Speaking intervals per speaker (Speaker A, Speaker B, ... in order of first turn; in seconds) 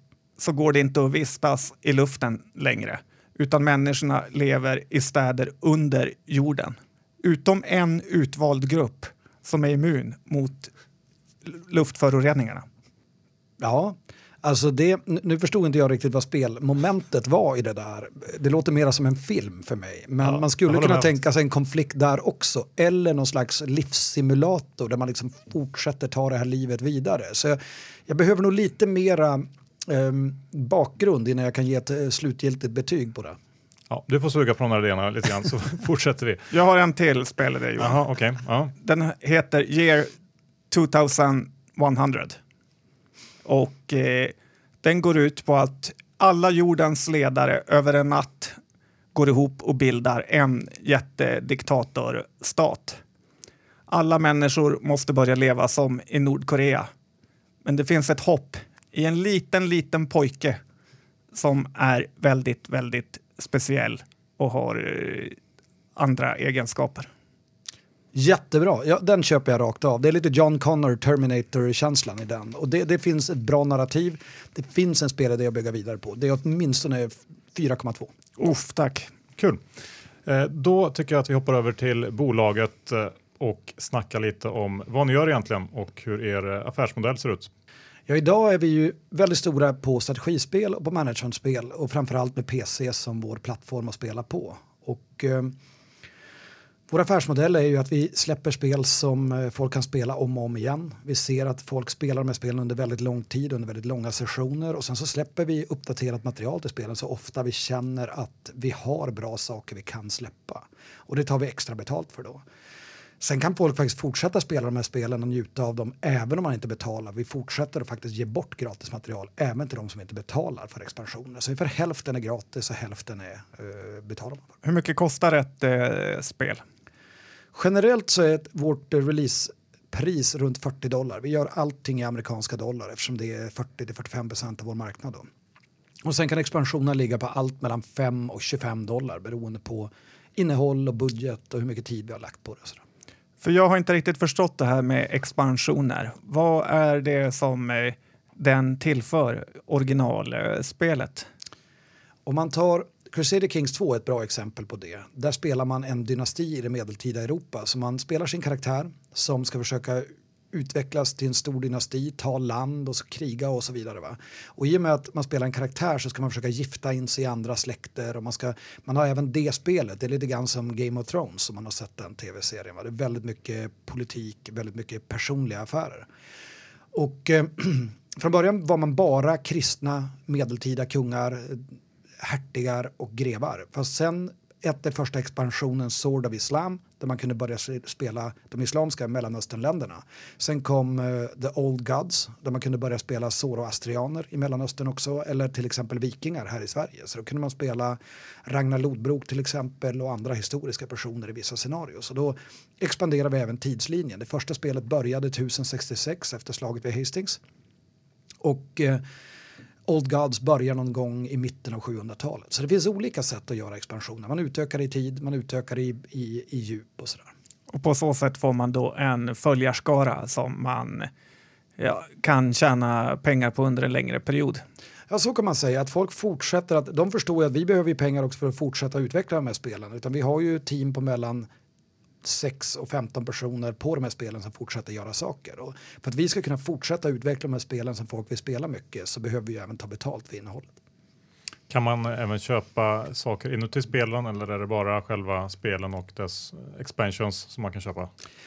Speaker A: 0.4-10.7, 11.4-12.6, 36.5-38.0, 38.8-40.1, 40.7-42.4, 43.4-48.6, 49.1-53.0, 53.9-56.9, 57.6-60.6, 61.3-65.3, 66.0-67.1, 78.4-79.1, 124.6-126.6, 143.4-151.3, 217.7-221.1, 221.8-224.6
Speaker B: 13.6-33.4, 68.1-78.1, 88.1-95.5, 96.9-112.4, 113.2-124.4, 127.5-135.3, 136.0-142.8, 152.2-176.1, 176.9-181.7, 182.2-207.4, 208.4-209.0, 209.8-217.3, 225.1-231.5, 232.2-240.7
Speaker C: 20.3-21.1, 33.9-36.5, 37.8-38.7, 79.4-79.6, 80.2-87.5, 241.7-248.1